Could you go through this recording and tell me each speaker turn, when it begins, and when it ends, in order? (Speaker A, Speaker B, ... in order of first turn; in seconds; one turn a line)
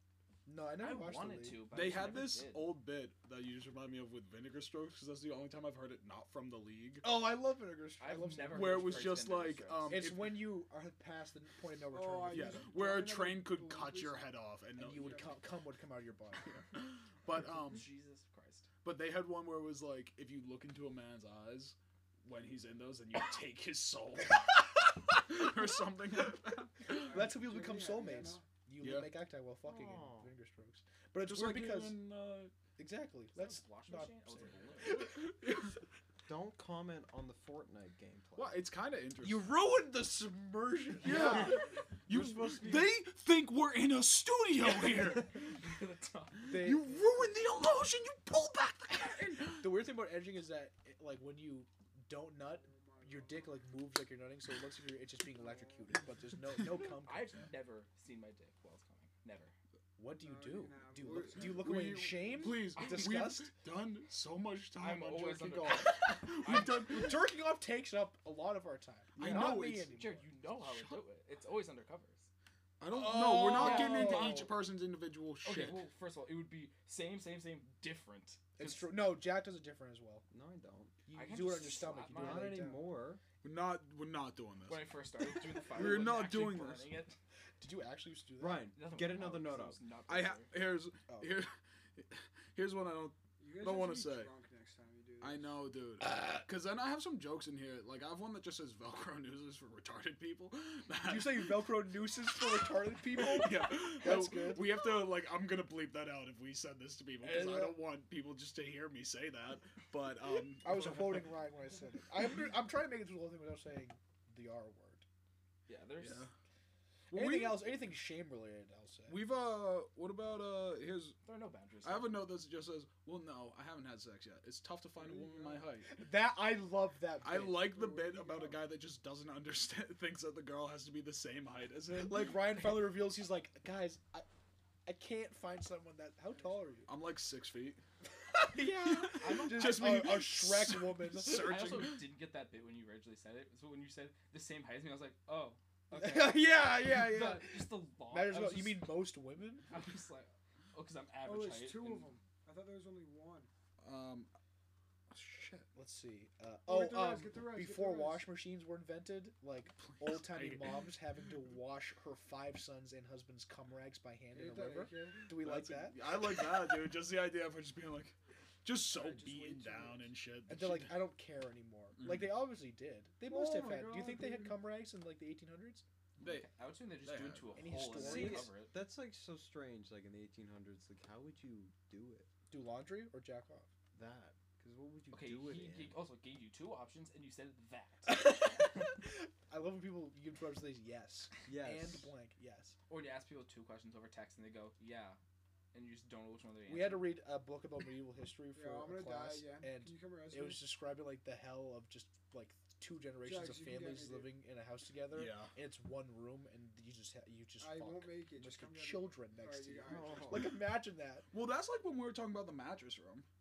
Speaker A: 0.5-1.7
Speaker B: 0.8-2.7
Speaker C: 1.7-7.1
Speaker A: 7.0-9.3
Speaker B: 8.0-10.1
Speaker C: 8.5-10.6
Speaker A: 9.9-12.7
Speaker D: 11.9-14.3
Speaker C: 12.3-15.3
Speaker A: 14.8-16.8
Speaker D: 14.9-15.4
Speaker C: 16.6-17.9
Speaker B: 17.7-18.7
Speaker C: 18.8-27.1
Speaker D: 26.9-28.5
Speaker A: 27.0-32.0
Speaker C: 28.8-29.1
Speaker E: 29.6-30.3
Speaker C: 31.2-32.5
Speaker A: 32.8-35.4
Speaker B: 33.3-35.1
Speaker C: 34.8-35.7
Speaker E: 36.3-38.6
Speaker C: 38.4-39.5
Speaker A: 39.2-41.6
Speaker C: 41.0-45.5
Speaker E: 42.1-42.8
Speaker B: 45.3-46.7
Speaker A: 46.5-47.3
Speaker C: 46.5-49.7
Speaker A: 48.9-57.5
Speaker D: 52.4-53.6
Speaker D: 55.4-55.9
Speaker B: 57.0-59.5
Speaker A: 60.0-63.5
Speaker D: 60.2-62.1
Speaker C: 61.3-67.3
Speaker B: 62.8-63.2
Speaker B: 64.8-66.9
Speaker A: 66.4-70.3
Speaker C: 69.2-70.0
Speaker B: 69.2-72.3
Speaker C: 70.5-71.0
Speaker C: 72.8-75.8
Speaker A: 72.9-74.5
Speaker B: 73.5-74.5
Speaker B: 75.4-78.8
Speaker A: 78.6-80.2
Speaker E: 80.3-80.9
Speaker A: 81.0-82.9
Speaker B: 81.1-82.6
Speaker E: 82.1-83.2
Speaker C: 83.4-84.9
Speaker B: 84.7-87.2
Speaker C: 85.5-86.9
Speaker A: 87.6-88.7
Speaker E: 88.4-89.8
Speaker B: 88.7-90.5
Speaker C: 90.1-94.3
Speaker A: 91.1-91.3
Speaker D: 93.4-95.6
Speaker C: 95.2-111.3
Speaker A: 96.0-96.4
Speaker A: 101.0-104.9
Speaker A: 107.2-107.8
Speaker A: 110.6-115.0
Speaker B: 115.7-116.3
Speaker C: 116.0-116.3
Speaker C: 117.1-117.7
Speaker A: 117.1-119.3
Speaker C: 119.1-121.2
Speaker B: 121.2-122.2
Speaker C: 121.8-126.0
Speaker D: 125.0-125.7
Speaker A: 125.9-127.8
Speaker C: 127.2-132.7
Speaker D: 127.7-128.6
Speaker A: 131.9-134.2
Speaker A: 134.8-136.9
Speaker C: 136.9-137.8
Speaker A: 138.3-141.8
Speaker C: 138.7-142.1
Speaker B: 139.2-140.1
Speaker B: 141.2-149.0
Speaker A: 145.9-149.7
Speaker B: 149.7-152.1
Speaker D: 151.2-153.5
Speaker C: 153.8-154.3
Speaker C: 155.1-155.7
Speaker A: 155.7-166.0
Speaker D: 156.6-158.3
Speaker C: 159.8-160.9
Speaker D: 164.3-165.3
Speaker C: 165.3-171.0
Speaker D: 168.9-170.1
Speaker A: 170.5-175.8
Speaker C: 172.0-172.4
Speaker D: 173.2-174.6
Speaker C: 176.2-176.5
Speaker B: 176.2-178.7
Speaker C: 177.0-177.6
Speaker A: 177.5-178.5
Speaker E: 177.9-182.3
Speaker A: 182.5-183.7
Speaker E: 183.9-186.0
Speaker B: 185.1-188.2
Speaker A: 188.1-192.8
Speaker E: 191.4-192.1
Speaker B: 192.9-195.2
Speaker B: 195.7-197.1
Speaker A: 196.7-211.3
Speaker D: 198.5-200.7
Speaker D: 203.2-204.3
Speaker C: 205.1-205.5
Speaker D: 207.6-210.5
Speaker E: 209.8-210.5
Speaker C: 211.3-213.2